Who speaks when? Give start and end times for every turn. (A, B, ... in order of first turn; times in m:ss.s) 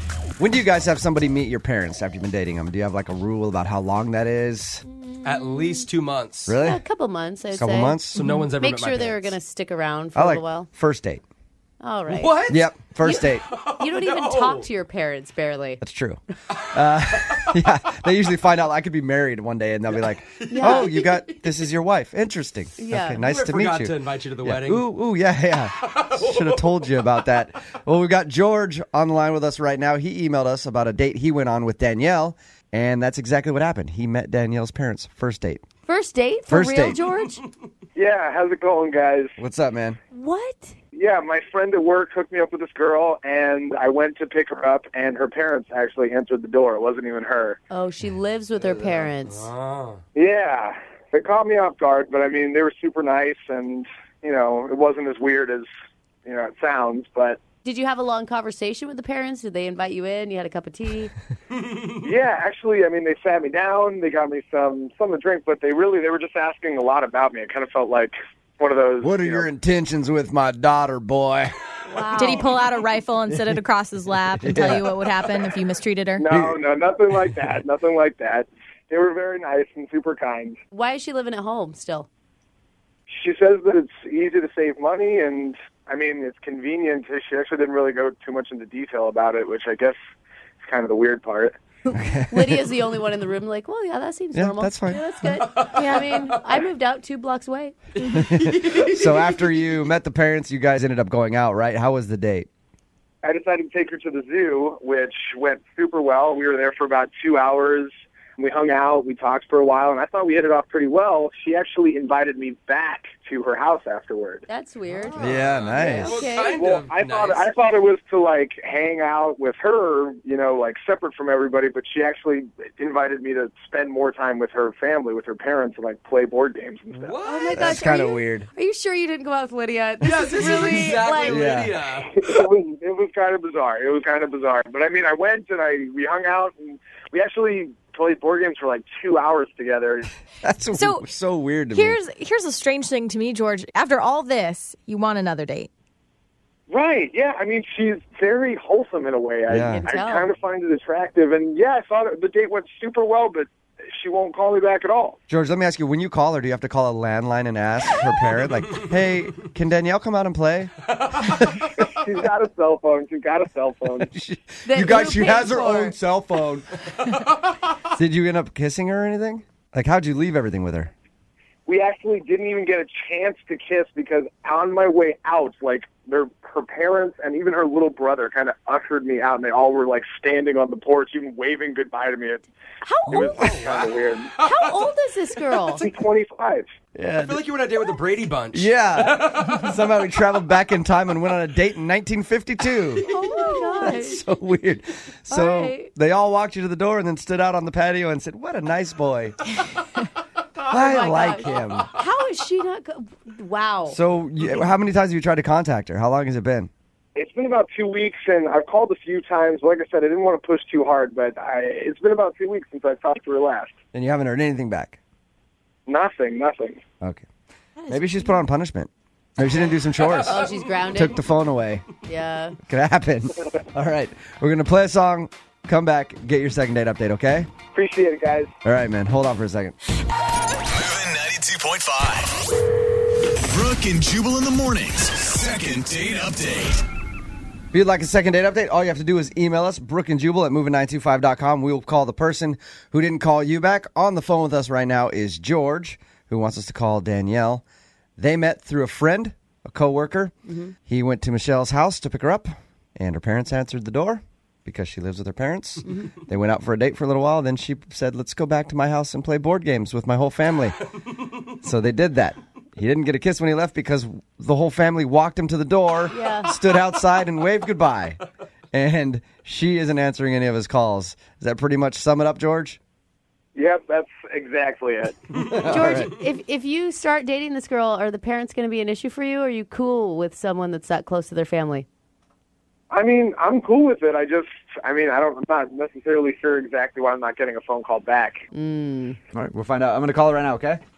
0:00.4-0:04.8 A
0:05.2-0:06.5 B
0:06.5-0:06.8 A
0:06.6-0:10.7 C
0:07.6-0:08.2 A
0:08.2-0:09.4 B
0:08.2-0:08.4 D
0:10.2-0:11.2 A
0:11.8-0:15.8 C
0:12.1-0:12.6 B
0:12.5-0:13.4 A
0:13.4-0:14.7 B
0:15.8-0:35.6 A
0:20.4-0:21.2 B
0:20.5-0:20.9 C
0:22.8-0:23.2 C
0:23.2-0:24.9 B
0:26.0-0:27.0 B
0:35.9-0:37.4 C
0:36.5-0:37.0 A
0:38.0-0:39.4 E
0:39.4-0:40.0 A
0:40.1-0:40.8 C
0:40.9-0:47.6 E
0:47.7-0:49.5 C
0:48.6-0:50.0 B
0:50.2-0:55.7 E
0:56.2-0:57.4 E
0:57.6-1:01.1 C
1:02.0-1:09.5 E
1:09.0-1:11.5 A
1:11.9-1:12.5 C
1:12.2-1:16.3 D
1:14.4-1:14.9 A
1:16.2-1:20.6 E
1:16.3-1:16.6 A
1:20.7-1:22.1 C
1:23.1-1:30.0 E
1:30.6-1:31.6 E
1:31.9-1:32.6 A
1:32.3-1:37.8 C
1:34.3-1:35.0 A
1:38.1-1:42.5 A
1:43.2-1:54.4 E
1:54.5-1:56.5 C
1:54.9-1:57.5 B
1:55.2-1:56.2 A
1:56.4-2:07.2 E
2:06.9-2:07.6 B
2:07.2-2:11.6 C
2:07.5-2:08.5 A
2:10.0-2:12.1 B
2:11.2-2:11.8 A
2:12.0-2:20.1 E
2:20.4-2:22.0 A
2:20.7-2:21.0 D
2:21.7-2:25.7 D
2:26.7-2:35.2 E
2:29.5-2:29.8 A
2:29.6-2:30.3 C
2:35.3-2:41.7 A
2:41.8-2:44.1 E
2:44.0-2:46.7 A
2:44.7-2:46.0 C
2:47.9-2:50.9 A
2:51.7-3:02.5 E
3:02.9-3:03.4 C
3:03.1-3:04.3 E
3:03.4-3:04.9 B
3:04.4-3:05.8 C
3:05.8-3:06.7 E
3:07.0-3:07.4 A
3:07.2-3:09.7 B
3:08.5-3:13.1 A
3:13.1-3:14.2 C
3:13.3-3:13.6 D
3:13.8-3:19.4 A
3:15.3-3:15.9 C
3:20.7-3:21.9 A
3:20.7-3:24.0 C
3:23.9-3:26.7 A
3:27.2-3:33.7 E
3:33.9-3:35.0 A
3:35.9-3:36.8 E
3:37.0-3:37.3 A
3:37.8-3:38.2 D
3:37.9-3:41.8 A
3:40.2-3:41.2 C
3:42.0-3:42.6 C
3:42.7-3:47.5 A
3:47.7-3:48.5 E
3:48.6-3:49.8 A
3:50.7-3:52.4 F
3:53.5-3:56.8 F
3:57.7-4:07.6 A
4:08.2-4:20.8 A
4:10.5-4:10.7 C
4:21.6-4:28.2 A
4:26.1-4:26.5 C
4:28.7-4:32.8 A
4:33.6-4:35.2 E
4:35.4-4:36.1 A
4:35.7-4:41.9 C
4:42.9-4:48.4 E
4:48.5-4:49.2 C
4:49.3-4:50.8 A